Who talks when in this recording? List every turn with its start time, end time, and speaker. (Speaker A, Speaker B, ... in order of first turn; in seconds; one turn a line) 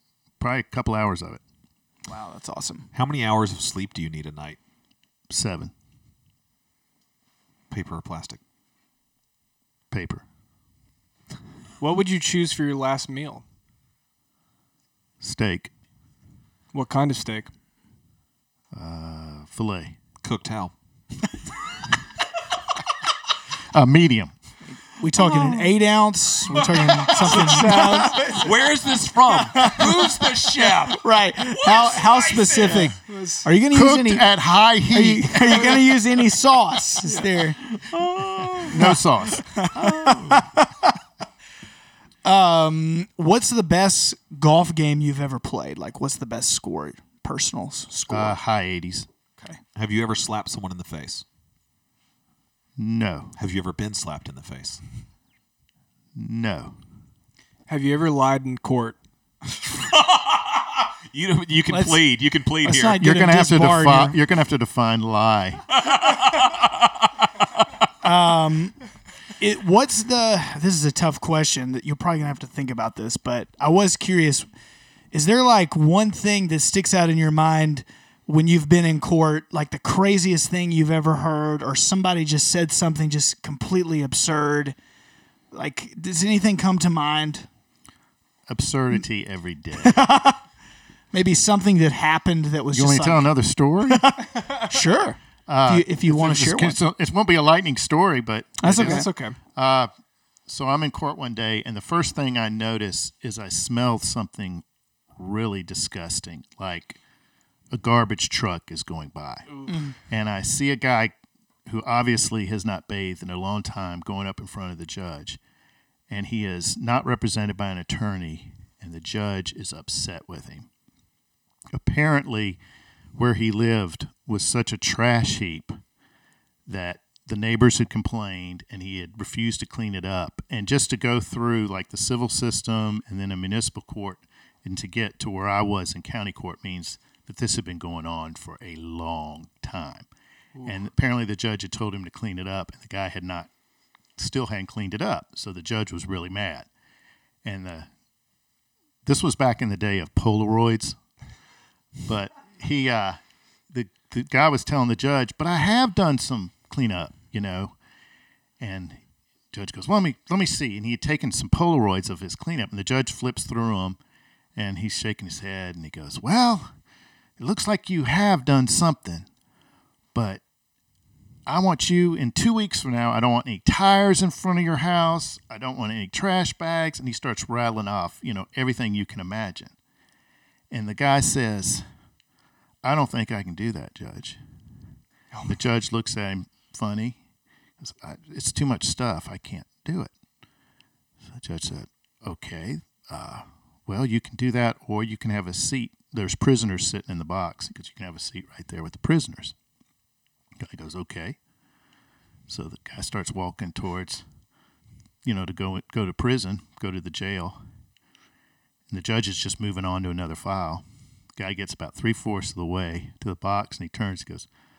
Speaker A: 0.4-1.4
Speaker B: 2.1-2.9
Speaker C: 2.9-4.6
Speaker A: 5.3-5.7
Speaker C: 7.7-8.4
Speaker A: 9.9-10.2
Speaker D: 11.8-13.4
Speaker A: 15.2-15.7
Speaker D: 16.7-17.5
Speaker A: 18.7-19.9
Speaker C: 20.2-20.7
Speaker A: 23.7-24.3
Speaker B: 24.8-28.5
Speaker C: 25.2-25.7
Speaker C: 26.5-32.9
Speaker D: 26.6-28.4
Speaker B: 29.4-30.1
Speaker B: 30.9-34.3
Speaker D: 32.6-33.5
Speaker A: 33.7-35.8
Speaker B: 34.9-37.6
Speaker D: 37.0-37.3
Speaker C: 37.8-38.9
Speaker A: 38.6-39.5
Speaker B: 38.7-40.9
Speaker C: 39.7-40.5
Speaker B: 42.2-48.4
Speaker A: 48.1-49.1
Speaker C: 49.8-51.2
Speaker A: 52.8-53.3
Speaker C: 53.4-54.8
Speaker A: 56.1-56.8
Speaker D: 57.7-59.0
Speaker C: 59.7-63.0
Speaker B: 61.7-62.0
Speaker B: 62.6-64.2
Speaker A: 63.0-65.6
Speaker C: 65.7-67.7
Speaker B: 68.0-68.8
Speaker B: 69.4-74.5
Speaker B: 75.1-84.8
Speaker B: 85.5-87.5
Speaker A: 88.5-90.0
Speaker B: 89.8-90.4
Speaker B: 91.1-93.3
Speaker A: 92.7-94.1
Speaker B: 93.9-96.8
Speaker A: 95.5-99.9
Speaker B: 98.6-99.1
Speaker D: 98.8-99.4
Speaker A: 100.5-104.6
Speaker A: 105.2-107.0
Speaker A: 107.7-109.5
Speaker B: 109.7-110.0
Speaker A: 110.1-111.1
Speaker A: 111.7-115.4
Speaker A: 116.1-120.7
Speaker A: 121.7-122.6
Speaker A: 123.2-125.8
Speaker A: 126.7-140.1
Speaker D: 140.6-140.9
Speaker A: 140.6-143.5
Speaker A: 144.2-146.7
Speaker A: 147.4-147.9
Speaker A: 149.1-151.0
Speaker A: 152.1-153.2
Speaker A: 153.7-157.7
Speaker A: 158.6-159.0
Speaker A: 159.5-164.0
Speaker A: 164.6-166.7
Speaker A: 167.4-169.3
Speaker A: 170.1-170.4
Speaker A: 171.5-179.7
Speaker A: 180.7-181.8
Speaker A: 182.8-184.4
Speaker A: 185.5-187.2
Speaker A: 187.8-190.1
Speaker A: 191.3-199.5
Speaker A: 200.6-201.4
Speaker A: 202.5-204.2
Speaker A: 205.2-207.6
Speaker A: 208.9-210.8
Speaker A: 211.4-214.5